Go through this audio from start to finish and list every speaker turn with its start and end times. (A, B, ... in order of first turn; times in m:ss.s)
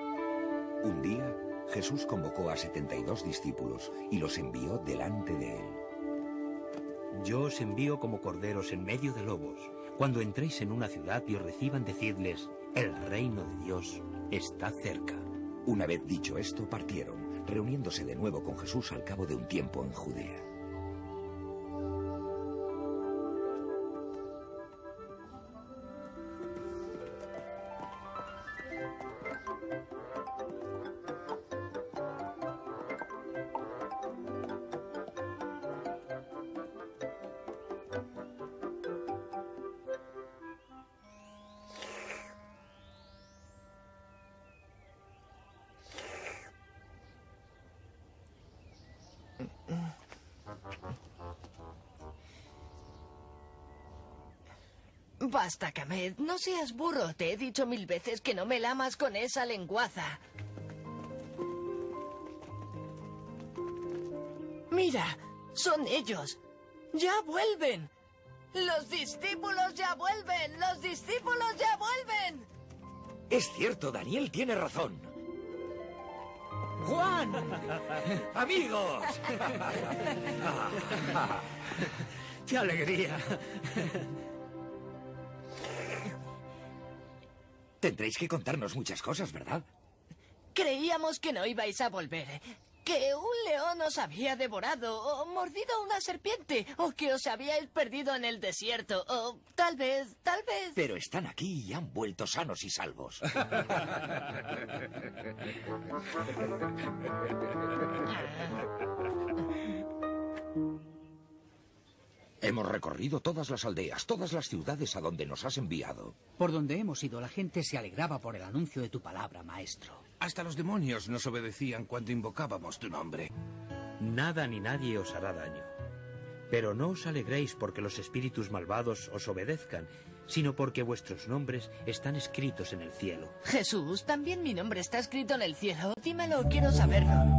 0:00.8-0:05.8 A
0:07.1-0:15.2 B
0:15.6-0:20.4 A
0:55.2-1:00.2 C
1:04.7-1:06.4 C
1:06.9-1:07.9 C
1:08.5-1:12.5 C
1:13.3-1:15.1 A
1:16.8-1:21.8 A
1:22.4-1:23.7 A
1:27.8-1:29.6 A
1:30.5-1:40.8 C
1:40.8-1:43.6 A
1:52.4-1:56.2 A
1:56.4-2:00.0 D
2:00.2-2:03.3 E
2:04.0-2:05.7 B
2:06.5-2:13.4 B
2:13.4-2:17.3 C